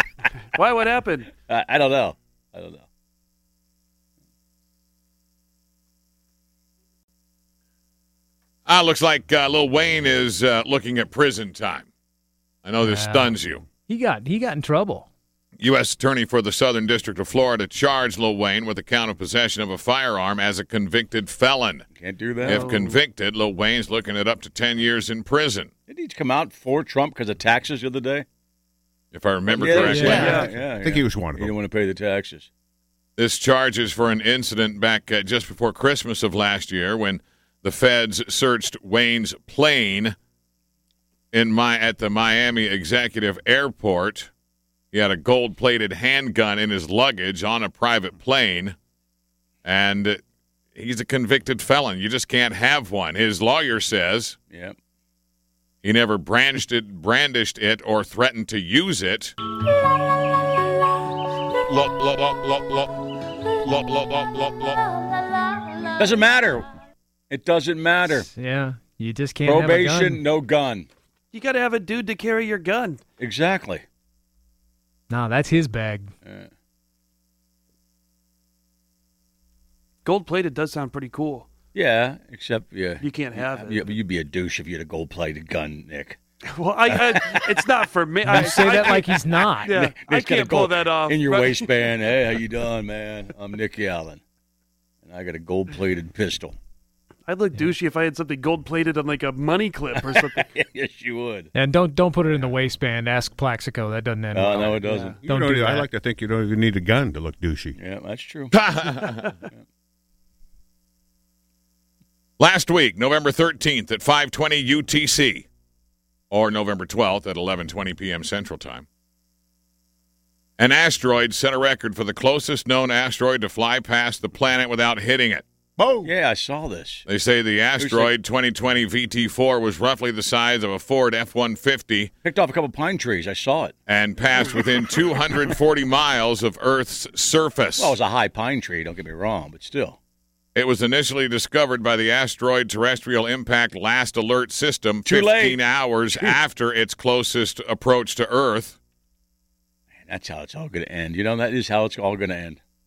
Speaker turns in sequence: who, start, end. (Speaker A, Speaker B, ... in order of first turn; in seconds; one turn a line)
Speaker A: 0.6-1.3
Speaker B: 1.4-2.8
Speaker C: 8.7-11.9
Speaker C: 12.6-13.6
Speaker D: 12.8-15.1
Speaker C: 15.6-21.9
Speaker B: 22.0-22.7
Speaker A: 22.4-23.0
Speaker C: 22.4-25.7
Speaker B: 25.9-28.3
Speaker C: 29.1-30.3
Speaker B: 29.5-32.5
Speaker D: 29.7-30.4
Speaker E: 29.9-31.5
Speaker A: 30.1-30.5
Speaker C: 33.2-40.1
Speaker C: 41.3-44.3
Speaker C: 44.9-48.8
Speaker C: 49.6-50.2
Speaker C: 50.8-54.4
Speaker C: 55.8-59.4
Speaker C: 61.7-64.8
Speaker B: 66.0-66.7
Speaker B: 67.3-68.3
Speaker D: 68.1-70.2
Speaker B: 69.5-70.9
Speaker A: 71.3-73.0
Speaker B: 73.2-73.8
Speaker D: 75.1-76.1
Speaker B: 76.2-76.5
Speaker A: 80.0-81.5
Speaker B: 81.7-86.2
Speaker A: 83.0-83.8
Speaker A: 86.5-91.7
Speaker B: 86.9-87.7
Speaker D: 88.2-89.7
Speaker B: 88.7-89.0
Speaker B: 89.7-94.2
Speaker B: 95.0-96.6
Speaker A: 97.3-100.5
Speaker B: 99.9-101.5
Speaker D: 101.5-105.9
Speaker B: 104.3-105.2
Speaker E: 105.2-107.8
Speaker B: 107.8-108.6
Speaker C: 108.5-109.3
Speaker C: 112.4-115.5
Speaker C: 116.3-118.9
Speaker C: 120.6-125.4
Speaker E: 125.8-126.1
Speaker B: 126.0-127.1
Speaker C: 127.1-132.1
Speaker B: 127.8-128.1
Speaker B: 132.2-133.8
Speaker C: 133.9-138.0
Speaker B: 137.8-140.0
Speaker C: 140.6-148.8
Speaker B: 145.1-146.4
Speaker B: 150.1-152.6